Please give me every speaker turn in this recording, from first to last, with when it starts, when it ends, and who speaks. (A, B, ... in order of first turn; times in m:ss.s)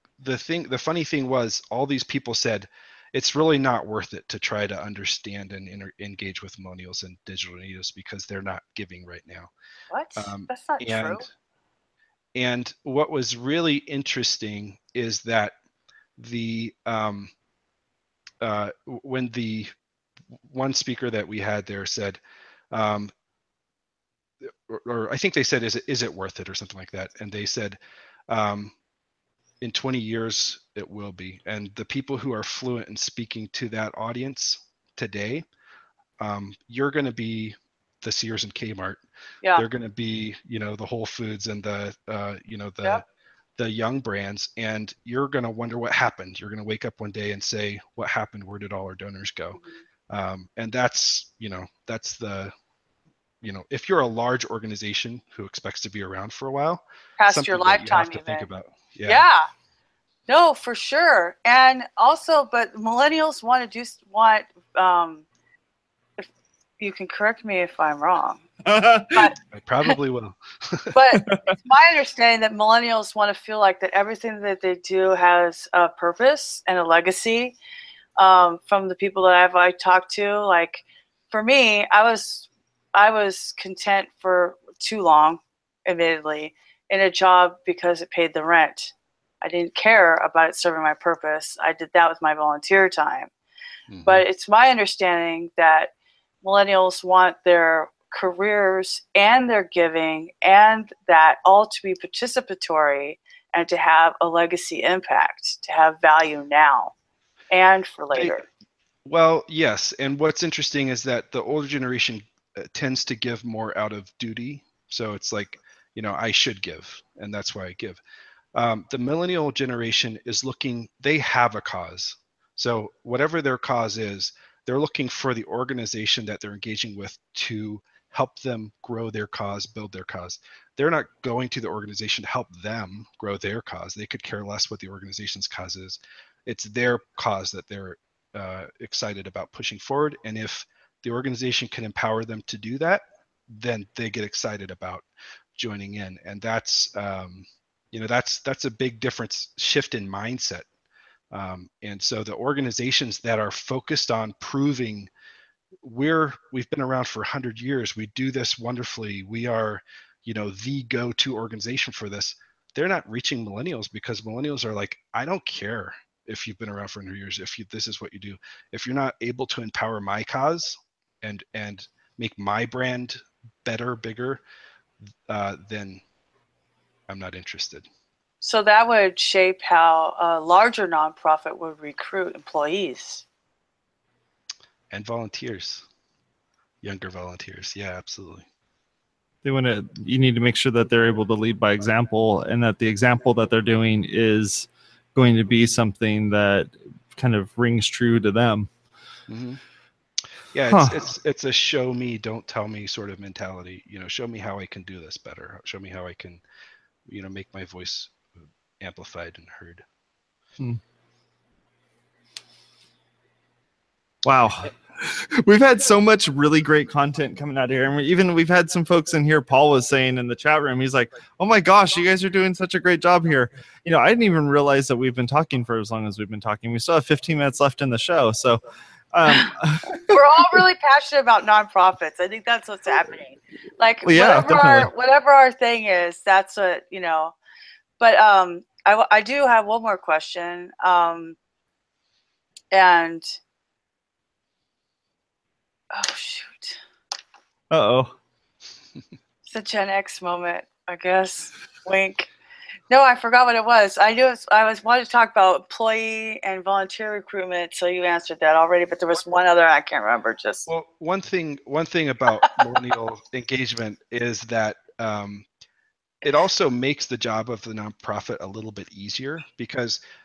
0:00.2-0:09.5 A
0:09.9-0:11.3 B
0:10.2-0:11.3 A
0:12.4-0:15.6 A
0:16.2-0:17.3 A
0:18.4-0:19.7 A
0:20.4-0:22.2 A
0:22.7-0:23.1 A
0:24.4-0:27.8 A
0:28.3-0:28.7 A
0:29.6-0:35.4 A
0:36.2-0:39.0 A
0:39.6-0:43.0 A
0:43.6-0:49.6 A
0:50.1-0:52.5 A
0:53.4-0:59.2 A
0:57.2-0:58.5 B
0:59.0-0:59.5 B
1:00.3-1:05.2 B
1:06.8-1:08.4 B
1:08.6-1:09.3 C
1:09.1-1:09.4 B
1:09.5-1:11.0 A
1:10.9-1:17.6 B
1:11.1-1:11.6 C
1:18.2-1:33.3 B
1:33.9-1:34.2 A
1:34.0-1:35.9 B
1:36.4-1:46.9 B
1:47.5-1:48.4 B
1:49.0-1:58.0 A
1:58.6-2:30.7 A
2:31.3-2:35.1 A
2:35.8-2:54.4 A
2:55.3-2:56.0 A
2:57.1-2:57.9 A
2:58.4-3:03.2 B
3:04.9-3:05.8 A
3:06.8-3:08.4 A
3:09.4-3:18.7 C
3:19.3-3:19.6 A
3:20.5-3:26.4 A
3:20.7-3:21.1 C
3:27.0-3:28.2 A
3:28.8-3:29.8 A
3:34.2-3:48.6 C
3:49.1-3:50.0 C
3:50.1-3:57.3 B
3:54.0-3:54.9 C
3:58.0-4:01.4 B
4:02.7-4:03.4 B
4:05.9-4:06.8 B
4:07.7-4:08.1 C
4:09.5-4:12.3 B
4:12.9-4:20.7 B
4:20.7-4:25.5 A
4:26.2-4:30.0 A